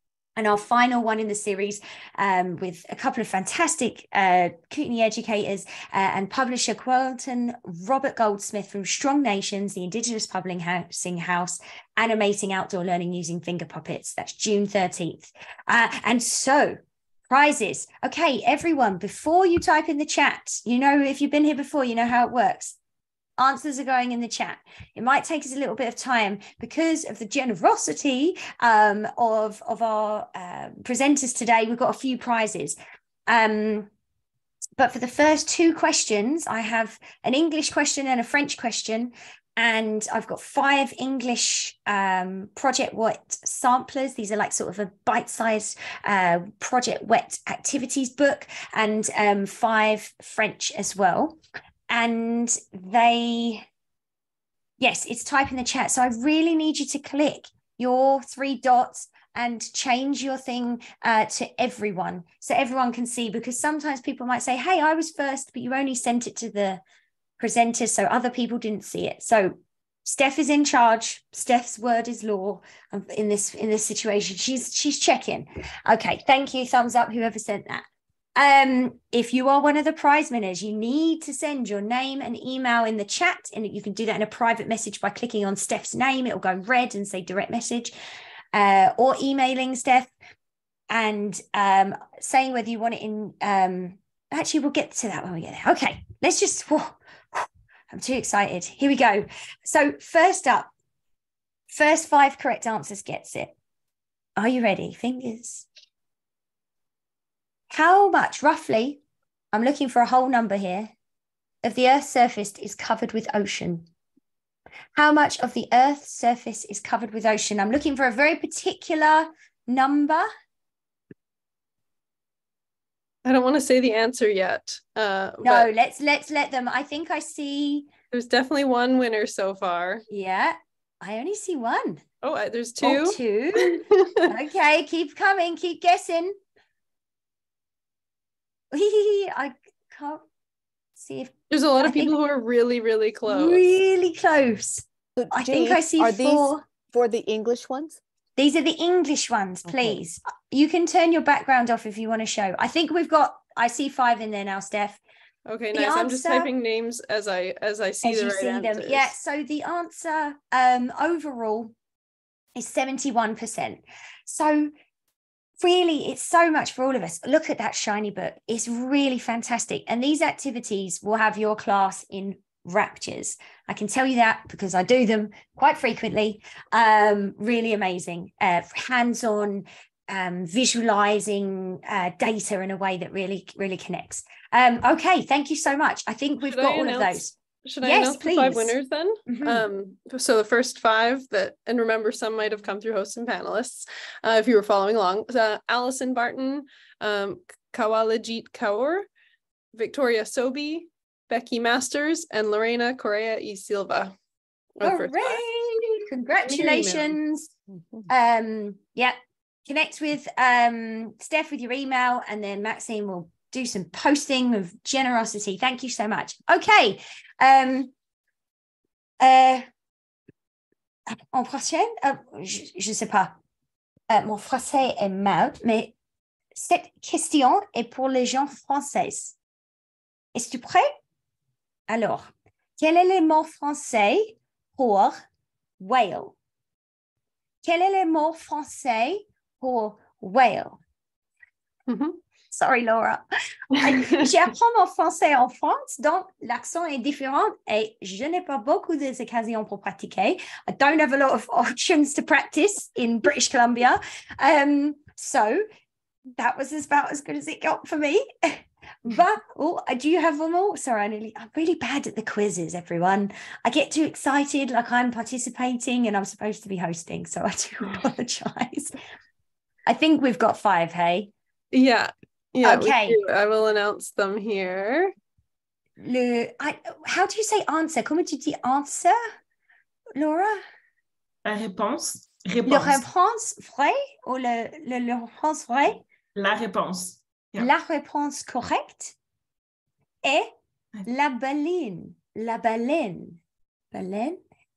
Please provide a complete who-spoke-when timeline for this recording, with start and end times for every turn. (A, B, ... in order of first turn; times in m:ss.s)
0:00.4-0:22.8 A
0:23.4-0:32.8 A
0:33.3-0:33.9 A
0:34.8-0:51.4 A
0:51.9-0:53.6 A
0:54.8-1:06.8 A
1:07.4-1:17.8 A
1:18.4-1:27.9 A
1:28.5-1:30.1 A
1:30.9-1:40.7 A
1:41.7-1:43.5 A
1:44.4-1:45.6 A
1:47.7-1:49.0 A
1:49.5-1:50.9 A
1:51.6-1:53.9 A
1:55.0-2:00.3 A
2:03.2-2:05.7 B
2:05.4-2:07.9 A
2:08.1-2:10.0 B
2:10.1-2:12.0 A
2:12.2-2:14.3 B
2:12.8-2:16.4 A
2:18.7-2:20.2 A
2:21.0-2:22.1 A
2:21.5-2:23.6 B
2:23.3-2:26.6 A
2:25.2-2:28.0 C
2:28.4-2:35.0 A
2:29.7-2:30.0 C
2:35.4-2:39.1 B
2:35.7-2:36.5 A
2:38.0-2:41.7 A
2:42.5-2:44.7 A
2:45.6-3:08.8 A
3:06.4-3:19.1 B
3:09.3-3:09.6 A
3:19.7-3:24.1 B
3:24.8-3:25.4 B
3:24.8-3:27.5 A
3:26.4-3:27.2 B
3:28.1-3:37.9 A
3:39.2-3:39.6 A
3:41.1-3:43.4 A
3:44.1-3:45.9 A
3:46.5-3:49.4 A
3:50.3-3:50.9 A
3:51.9-3:55.2 A
3:55.8-3:56.4 A
3:57.6-4:00.8 A
4:01.9-4:02.2 B
4:02.5-4:03.2 A
4:03.7-4:15.6 A
4:16.4-4:28.9 A
4:29.8-4:31.3 A
4:31.7-4:35.1 B
4:32.6-4:33.2 A
4:36.0-4:39.2 A
4:40.1-4:40.6 A
4:41.4-4:43.0 D
4:42.6-4:46.0 A
4:46.3-4:47.7 D
4:47.6-4:49.1 A
4:50.2-4:50.5 A
4:51.0-4:53.4 A
4:53.9-4:54.4 A